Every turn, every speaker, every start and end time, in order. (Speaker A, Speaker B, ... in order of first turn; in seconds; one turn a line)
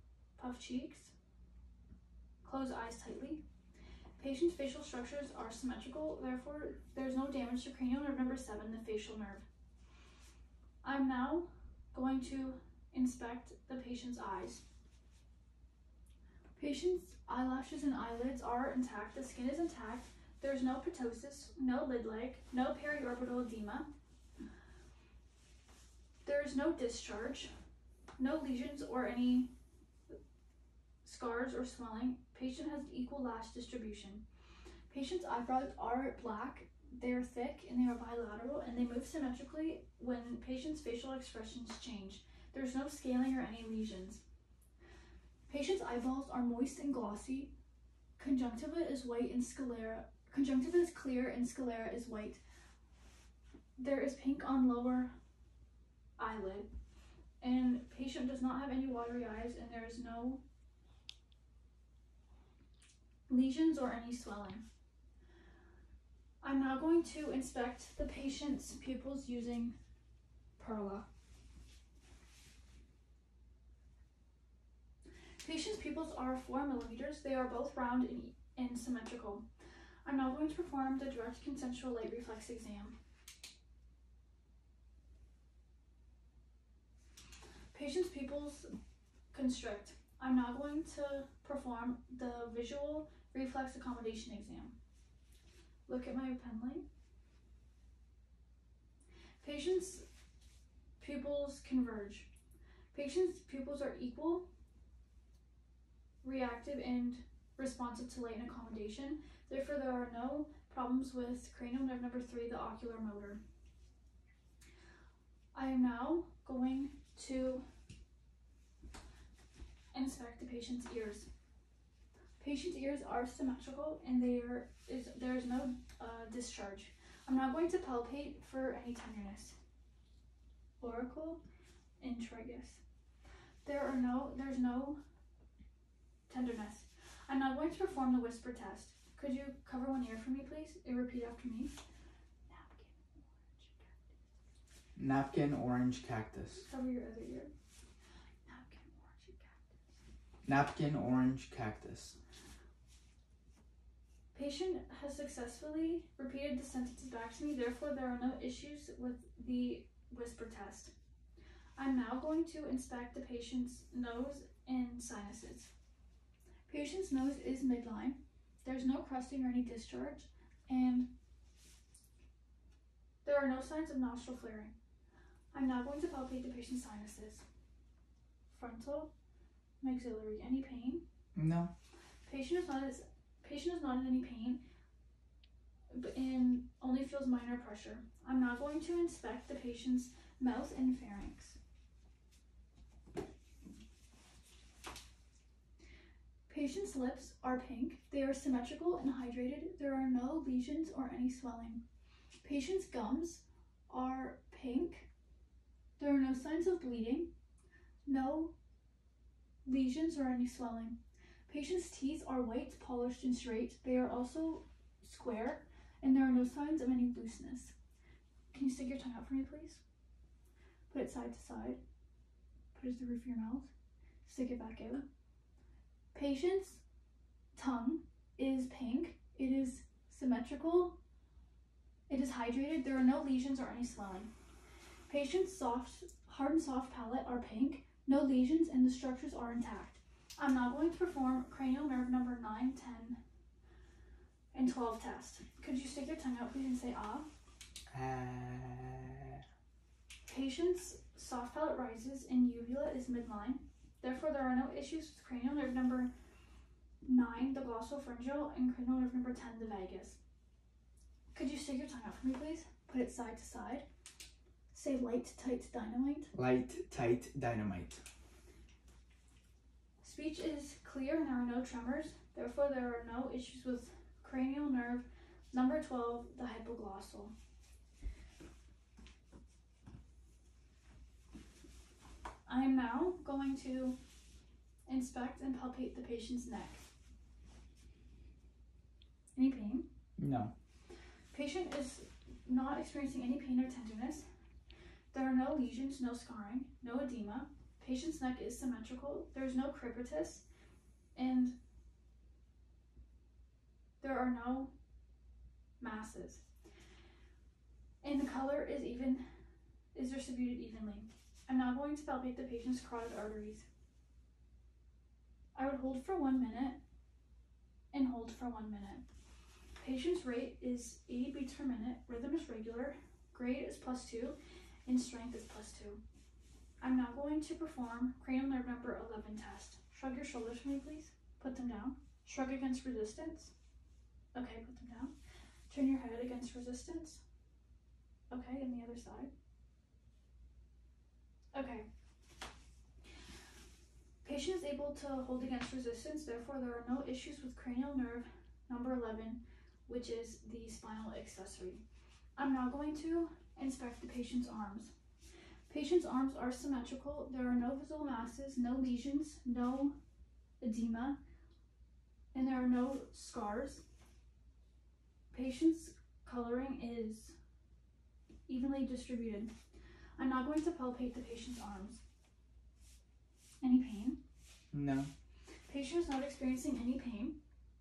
Speaker A: 0.4-1.1
Speaker A: 2.4-3.4
Speaker A: 4.2-9.4
Speaker A: 10.8-14.6
Speaker A: 16.6-23.9
Speaker A: 26.2-27.5
Speaker A: 28.2-29.5
Speaker A: 31.0-34.2
Speaker A: 34.9-44.2
Speaker A: 45.5-47.5
Speaker A: 48.2-52.4
Speaker A: 53.8-55.1
Speaker A: 56.2-56.7
Speaker A: 57.4-60.4
Speaker A: 63.3-64.6
Speaker A: 66.4-69.8
Speaker A: 70.6-71.1
Speaker A: 75.4-79.5
Speaker A: 80.0-83.0
Speaker A: 87.7-88.7
Speaker A: 89.3-94.8
Speaker A: 95.9-96.8
Speaker A: 99.4-100.0
Speaker A: 101.0-102.3
Speaker A: 102.9-104.5
Speaker A: 106.2-113.4
Speaker A: 115.5-117.7
Speaker A: 119.9-121.3
Speaker A: 122.4-129.6
Speaker A: 130.8-131.4
Speaker A: 132.0-132.8
Speaker A: 133.7-135.0
Speaker A: 136.3-141.7
Speaker A: 142.5-144.1
Speaker B: 145.0-146.7
Speaker A: 146.6-147.5
Speaker A: 148.5-149.6
Speaker B: 150.5-152.2
Speaker A: 154.3-160.9
Speaker A: 161.8-165.7
Speaker A: 166.7-171.1
Speaker A: 173.2-174.7
Speaker A: 175.5-177.4
Speaker A: 178.5-179.1
Speaker A: 179.8-181.0
Speaker B: 181.3-181.7
Speaker A: 182.2-184.6
Speaker A: 185.9-191.6
Speaker A: 196.5-201.8
Speaker A: 202.4-205.1
Speaker A: 206.0-207.3
Speaker A: 208.0-208.5
Speaker A: 209.7-211.0
Speaker A: 211.5-217.7
Speaker A: 218.5-219.8
Speaker A: 220.9-221.8
Speaker A: 222.7-223.7
Speaker A: 224.2-225.1
Speaker A: 226.1-226.8
Speaker A: 227.5-231.0
Speaker A: 232.1-234.3
Speaker A: 235.1-243.2
Speaker A: 244.5-247.3
Speaker B: 247.9-249.4
Speaker A: 250.3-256.1
Speaker A: 257.0-260.2
Speaker A: 261.3-263.9
Speaker A: 264.7-266.3
Speaker B: 266.3-268.0
Speaker A: 270.0-277.3
Speaker A: 282.5-284.0
Speaker A: 284.9-286.8
Speaker A: 289.4-289.9
Speaker B: 290.2-290.5
Speaker A: 291.3-294.2
Speaker A: 295.1-300.4
Speaker A: 301.1-301.6
Speaker A: 304.0-304.7
Speaker A: 305.8-306.4
Speaker A: 308.0-309.2
Speaker A: 309.9-313.6
Speaker A: 315.5-316.8
Speaker A: 317.9-319.1
Speaker A: 319.8-326.0
Speaker A: 326.8-333.5
Speaker A: 334.3-335.1
Speaker A: 335.7-337.2
Speaker A: 338.3-339.3
Speaker A: 341.5-341.9
Speaker A: 344.2-351.8
Speaker A: 352.4-354.9
Speaker A: 355.7-360.0
Speaker A: 360.6-361.2
Speaker A: 362.3-363.8
Speaker A: 365.3-367.4
Speaker A: 368.5-369.5
Speaker A: 370.2-372.0
Speaker A: 373.6-374.2
Speaker B: 374.7-375.1
Speaker A: 375.7-377.4